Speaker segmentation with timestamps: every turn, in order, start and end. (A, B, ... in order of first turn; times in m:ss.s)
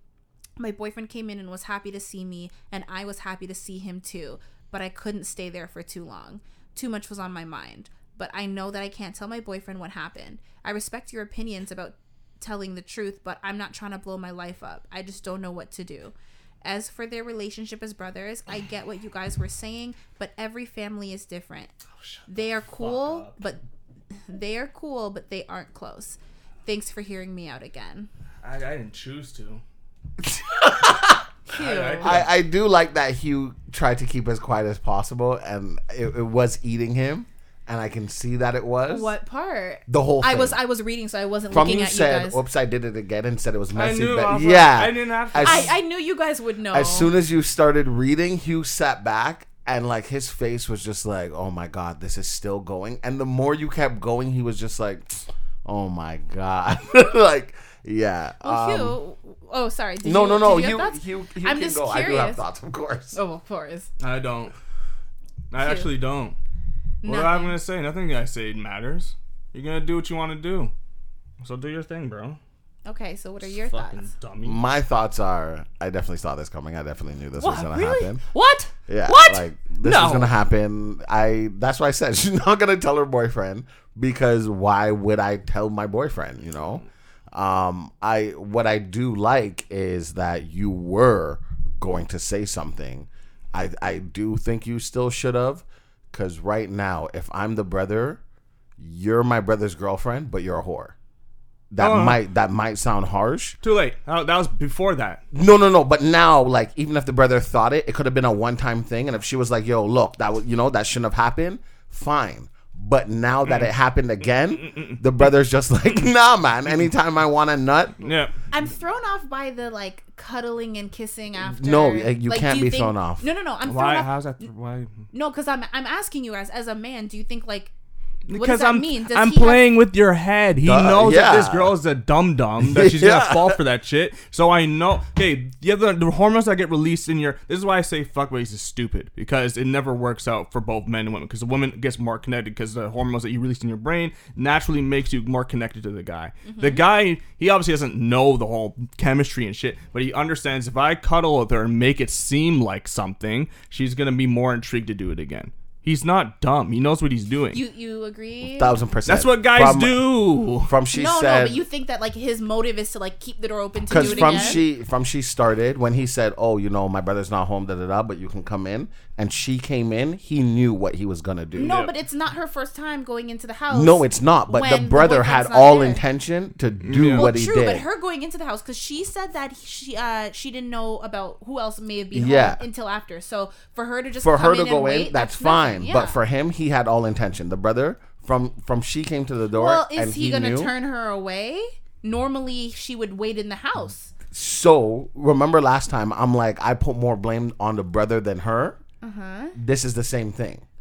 0:00.6-0:21.7 A
0:22.0-0:23.4 B
0:22.3-0:23.6 A
0:24.3-0:28.1 A
0:28.4-0:29.6 B
0:30.2-0:31.3 C
0:31.5-0:32.2 A
0:31.5-0:32.3 B
0:32.0-0:39.1 C
0:38.9-0:42.4 A
0:39.9-0:40.6 C
0:41.5-0:45.7 C
0:43.7-0:45.8 B
0:45.4-0:47.1 A
0:46.7-0:59.0 C
0:58.4-1:02.4 A
1:00.0-1:03.2 C
1:03.1-1:03.9 A
1:04.0-1:04.5 B
1:05.5-1:06.4 B
1:05.5-1:05.9 A
1:07.0-1:07.6 A
1:07.0-1:10.7 B
1:11.4-1:12.4 B
1:12.8-1:14.1 A
1:13.4-1:14.6 B
1:14.4-1:18.2 C
1:17.4-1:18.6 A
1:18.9-1:38.2 C
1:19.1-1:20.3 B
1:38.8-1:40.9 C
1:41.7-1:43.6 C
1:41.8-1:42.2 B
1:43.6-1:45.2 B
1:45.3-1:58.1 C
1:58.0-1:58.3 B
1:58.5-2:04.4 A
2:01.4-2:03.2 C
2:03.6-2:05.0 B
2:05.1-2:07.7 A
2:08.3-2:09.6 A
2:08.3-2:37.6 B
2:10.6-2:11.8 C
2:12.6-2:13.6 C
2:26.4-2:26.8 A
2:37.5-2:38.7 A
2:38.4-2:40.0 C
2:39.1-2:40.7 B
2:40.6-2:41.6 C
2:40.9-2:44.6 A
2:43.9-2:51.8 C
2:43.9-2:44.6 B
2:51.5-2:56.0 A
2:51.6-2:51.9 B
2:53.7-2:57.8 C
2:56.8-2:57.3 B
2:57.1-3:06.2 A
3:02.1-3:02.6 C
3:04.2-3:10.7 C
3:09.5-3:14.1 A
3:14.3-3:18.8 C
3:19.0-3:19.6 A
3:19.6-3:20.6 C